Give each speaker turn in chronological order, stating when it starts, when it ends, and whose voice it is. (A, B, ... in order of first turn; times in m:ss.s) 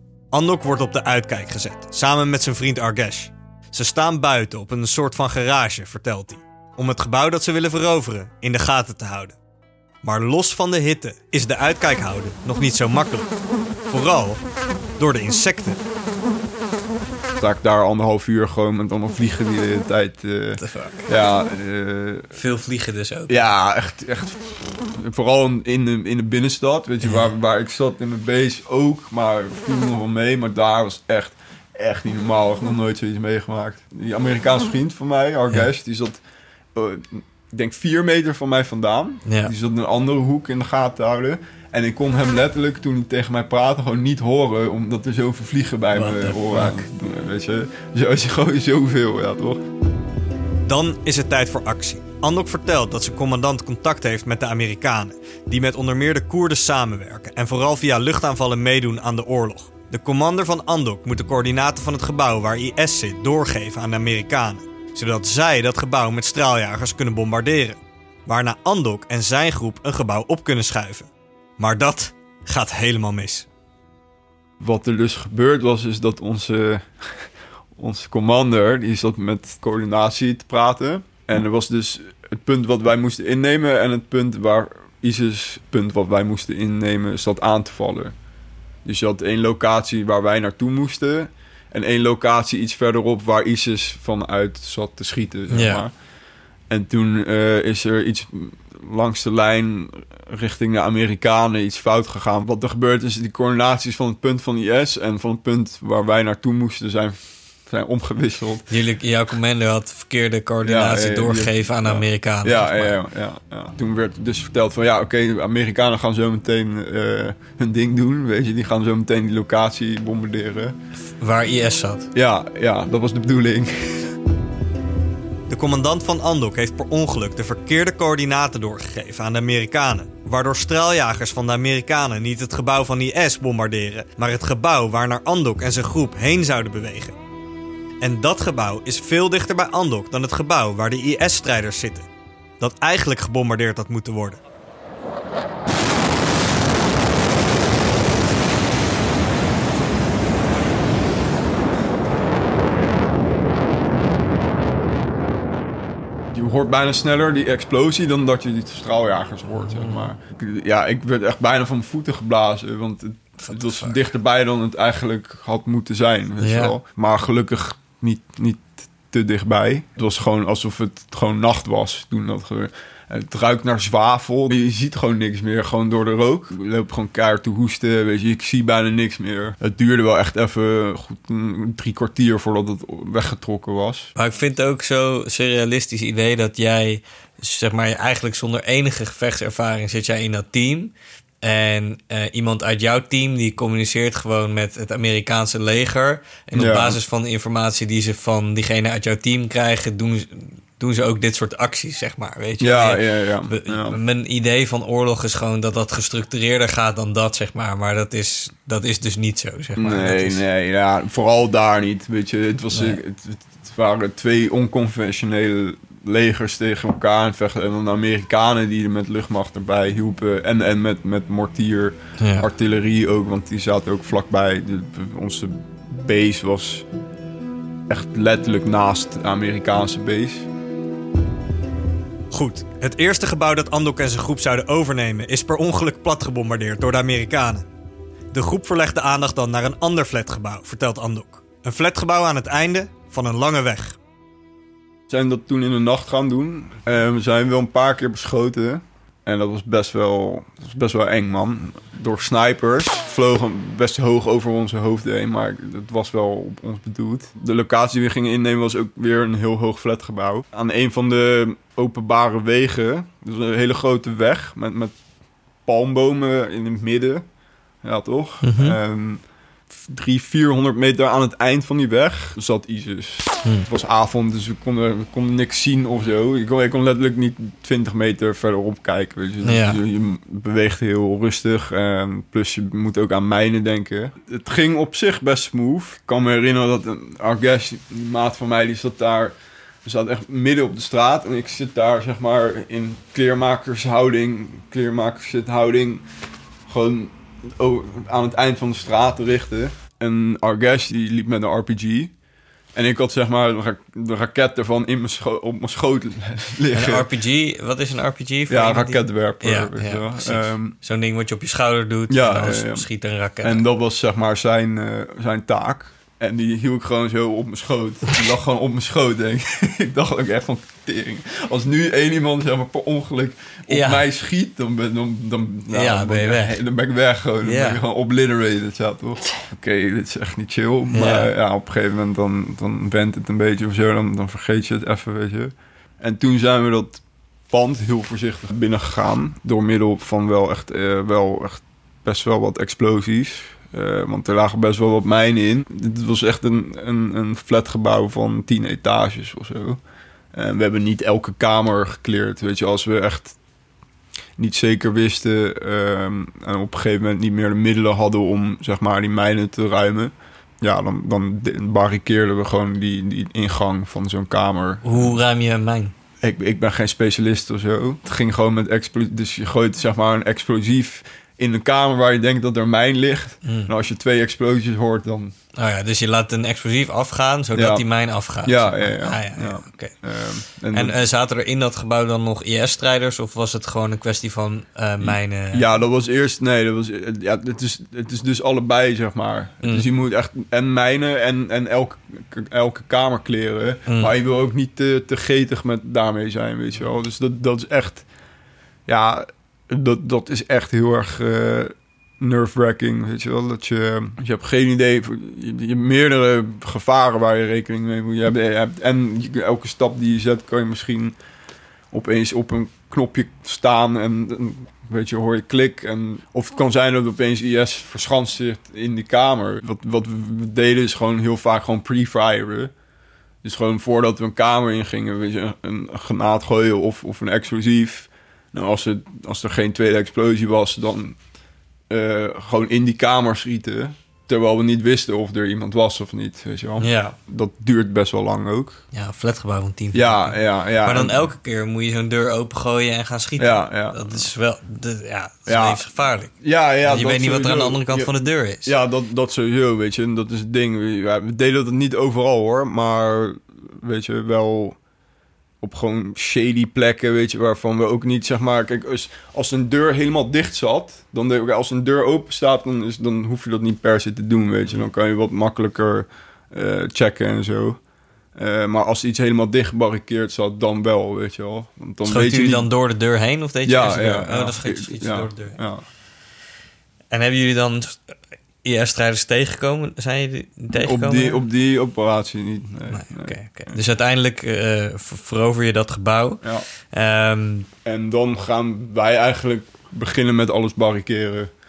0:00.3-0:09.4 A
0:10.0-0:13.3 A
0:13.9-0:14.4 A
0:15.0-0:15.8 A
0:17.4-0:22.3 B
0:20.6-0:21.0 C
0:22.3-0:23.4 C
0:23.3-0:36.2 B
0:36.7-0:49.6 B
0:39.2-0:39.5 C
0:45.9-0:46.8 C
0:50.6-1:13.5 A
1:14.6-1:28.1 B
1:28.8-1:35.9 B
1:35.5-1:35.8 C
1:36.7-1:48.6 B
1:48.7-1:52.9 C
1:50.6-2:00.8 B
2:01.2-2:02.1 C
2:02.1-2:04.1 B
2:05.5-2:17.2 A
2:18.0-2:22.1 A
2:22.6-2:24.4 A
2:36.3-3:04.1 B
2:39.6-2:40.1 C
2:43.4-2:44.0 C
2:46.4-2:46.8 C
3:04.1-3:30.4 C
3:16.5-3:17.0 B
3:22.6-3:24.0 B
3:29.8-3:46.8 B
3:32.7-3:33.0 C
3:42.2-3:42.5 C
3:47.9-3:50.5 B
3:52.3-3:57.6 A
3:58.3-4:04.0 A
4:05.1-4:24.9 B
4:25.6-4:27.2 B
4:27.8-4:56.0 B
4:28.4-4:28.8 C
4:39.4-4:39.8 C
4:56.7-5:02.1 B
5:02.7-5:07.0 B
5:06.7-5:13.6 C
5:08.5-5:10.8 B
5:12.1-5:12.9 B
5:13.4-5:49.8 B
5:23.7-5:24.0 C
5:25.7-5:26.6 C
5:27.4-5:27.8 C
5:30.9-5:31.3 C
5:50.3-5:53.4 B
5:54.4-6:05.2 B
6:04.8-6:05.9 C
6:06.2-6:15.3 B
6:13.4-6:13.7 C
6:15.6-6:20.1 C
6:17.5-6:17.8 B
6:18.4-6:21.0 B
6:20.7-6:25.7 C
6:25.0-6:38.0 B
6:29.6-6:29.9 C
6:33.9-6:34.1 C
6:38.9-6:51.2 B
6:51.9-7:02.7 B
7:03.4-7:11.2 B
7:11.9-7:18.8 B
7:16.8-7:17.2 C
7:18.9-7:28.7 C
7:19.9-7:21.2 B
7:23.4-7:24.2 B
7:25.5-7:25.8 B
7:26.4-7:34.8 B
7:35.6-7:47.8 B
7:48.3-7:52.7 B
7:52.0-7:55.6 C
7:53.6-7:55.8 B
7:57.1-7:58.1 C
7:58.6-8:01.4 C
8:00.7-8:03.8 B
8:02.9-8:07.7 C
8:07.8-8:11.5 B